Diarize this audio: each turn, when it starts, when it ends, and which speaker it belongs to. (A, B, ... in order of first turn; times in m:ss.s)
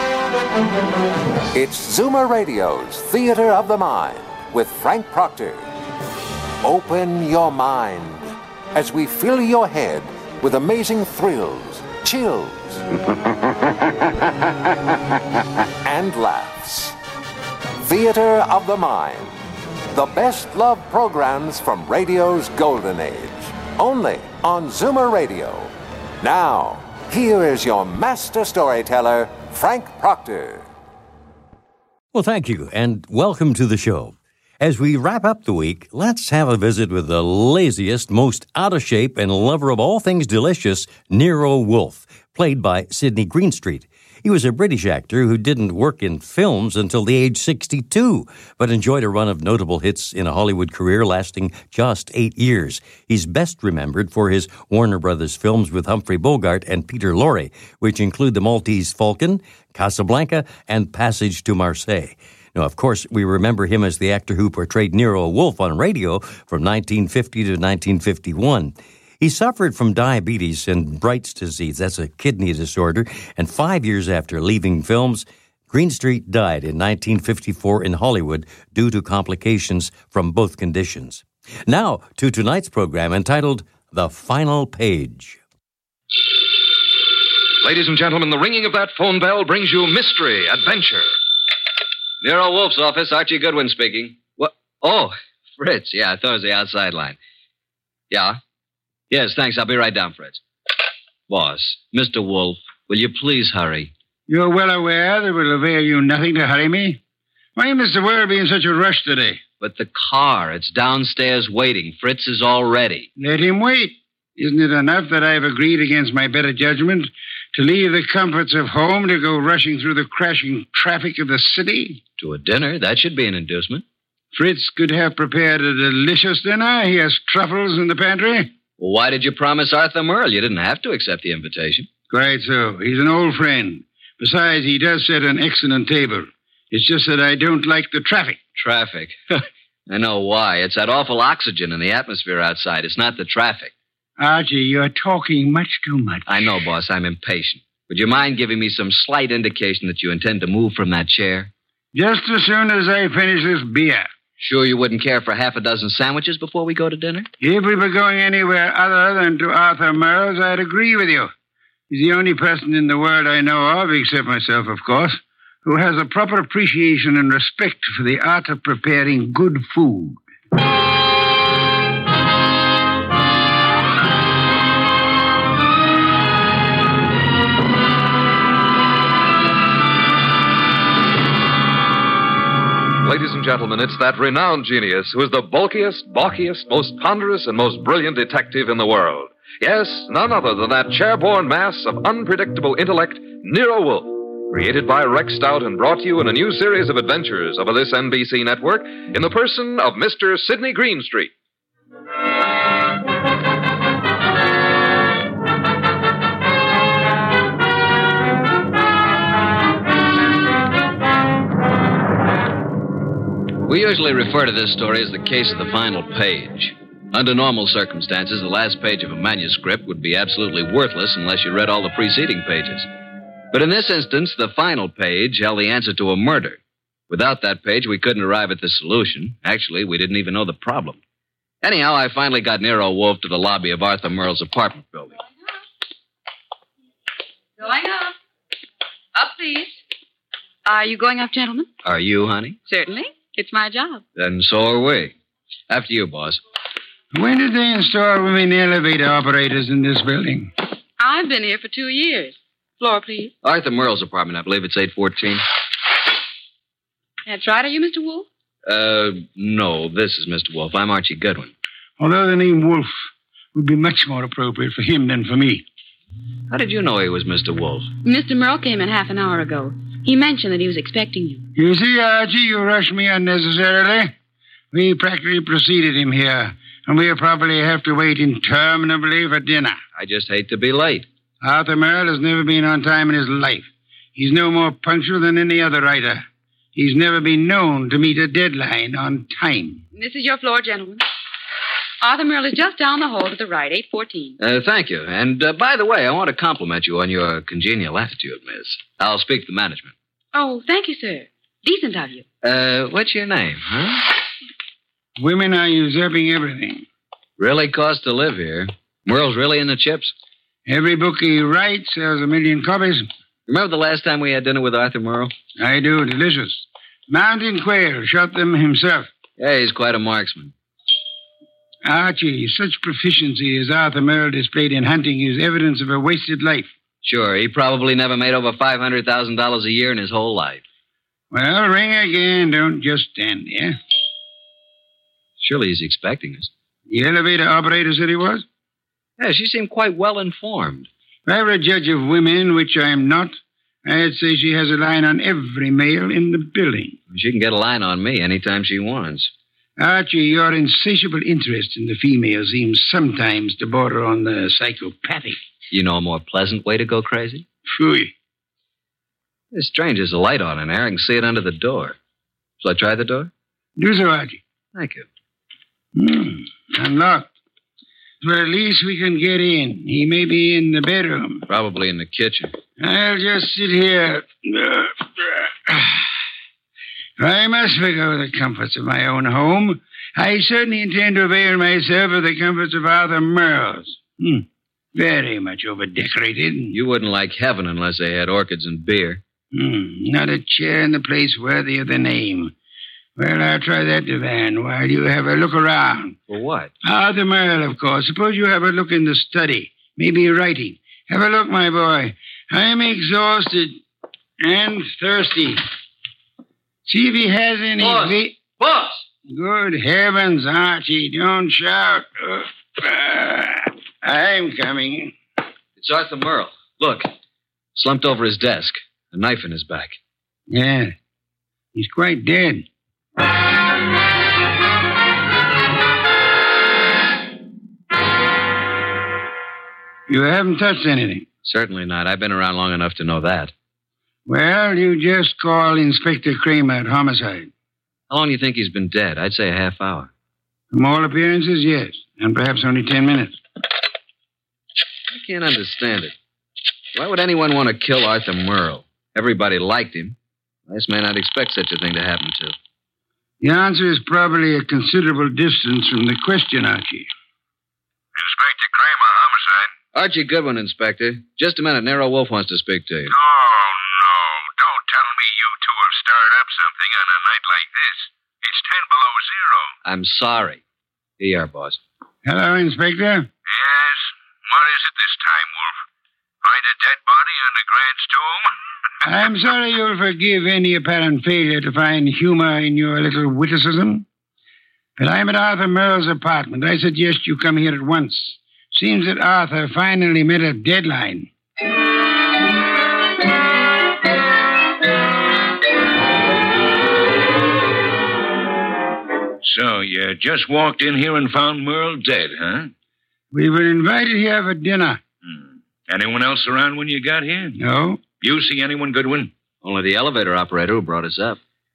0:01.5-0:05.7 A
0:06.6-0:12.8 A
0:15.8-0:17.0 A
0:17.8-0:19.3 A
0:19.9-0:30.7 A
0:32.1-1:25.4 B
1:27.6-1:31.1 C
1:32.2-1:37.2 D
1:38.1-1:38.4 D
1:39.1-1:40.4 D
1:41.3-1:43.9 D
1:44.3-1:47.0 E
1:47.6-1:49.4 E
1:49.6-1:53.1 D
1:53.2-2:02.0 E
2:02.2-2:03.8 D
2:04.3-2:08.5 E
2:08.8-2:11.9 D
2:12.1-2:18.4 E
2:18.6-2:23.7 D
2:24.2-2:26.4 E
2:26.3-2:31.5 D
2:31.9-2:34.1 E
2:34.4-2:37.3 D
2:37.4-2:41.3 E
2:41.9-2:50.2 E
3:03.0-3:21.3 C
3:33.6-3:42.9 D
3:43.5-3:51.0 D
3:51.6-3:55.2 D
3:57.6-3:58.2 F
3:59.1-3:59.7 F
4:00.6-4:01.7 F
4:01.8-4:02.6 D
4:02.6-4:04.0 F
4:04.2-4:05.1 D
4:05.7-4:06.4 D
4:07.1-4:10.5 E
4:11.0-4:13.3 F
4:13.4-4:15.4 D
4:17.2-4:18.3 F
4:18.6-4:21.5 D
4:22.0-4:22.9 E
4:23.5-4:25.6 E
4:26.5-4:27.9 D
4:28.0-4:31.5 F
4:31.5-4:34.1 E
4:34.7-4:39.8 E
4:40.0-4:41.1 D
4:41.4-4:49.8 E
4:49.9-4:51.0 F
4:52.0-4:54.4 F
4:54.4-4:59.9 D
5:00.3-5:02.2 F
5:02.4-5:04.1 D
5:05.2-5:06.8 E
5:07.4-5:10.1 D
5:10.6-5:13.1 E
5:13.5-5:15.3 D
5:15.6-5:19.1 E
5:19.4-5:20.5 D
5:21.8-5:26.7 E
5:27.0-5:30.6 D
5:31.3-5:33.8 E
5:35.4-5:36.5 D
5:36.9-5:38.4 E
5:39.2-5:40.9 D
5:41.2-5:47.0 E
5:47.1-5:49.3 D
5:49.8-5:55.4 E
5:55.7-5:57.4 D
5:57.7-5:58.1 E
5:59.5-6:02.0 D
6:02.6-6:03.3 D
6:03.8-6:04.4 E
6:04.7-6:05.1 D
6:05.9-6:07.3 E
6:08.2-6:11.4 E
6:11.5-6:12.5 D
6:12.8-6:16.0 E
6:17.2-6:26.8 E
6:26.7-6:29.2 D
6:29.5-6:32.5 E
6:33.2-6:36.2 E
6:36.3-6:36.7 D
6:36.8-6:43.8 E
6:44.4-6:45.6 E
6:46.8-6:48.4 E
6:47.8-6:49.0 D
6:49.3-6:55.1 E
6:55.8-6:57.1 D
6:57.7-7:00.0 D
7:00.5-7:00.9 E
7:01.7-7:02.6 E
7:10.1-7:11.3 E
7:11.4-7:13.5 D
7:14.2-7:17.5 E
7:18.1-7:20.1 D
7:20.7-7:23.4 E
7:25.1-7:26.1 D
7:26.9-7:30.2 D
7:30.7-7:32.5 D
7:33.4-7:37.1 E
7:38.1-7:39.7 G
7:39.9-7:43.1 D
7:43.1-7:49.7 G
7:49.8-7:50.6 D
7:51.2-7:51.8 D
7:52.2-7:53.3 E
7:53.4-7:55.8 G
7:56.4-7:58.5 G
7:59.0-8:04.0 E
8:05.0-8:11.3 E
8:19.4-8:22.7 G
8:23.3-8:25.0 E
8:25.2-8:27.6 G
8:27.6-8:28.0 E
8:28.2-8:29.3 G
8:29.6-8:31.4 D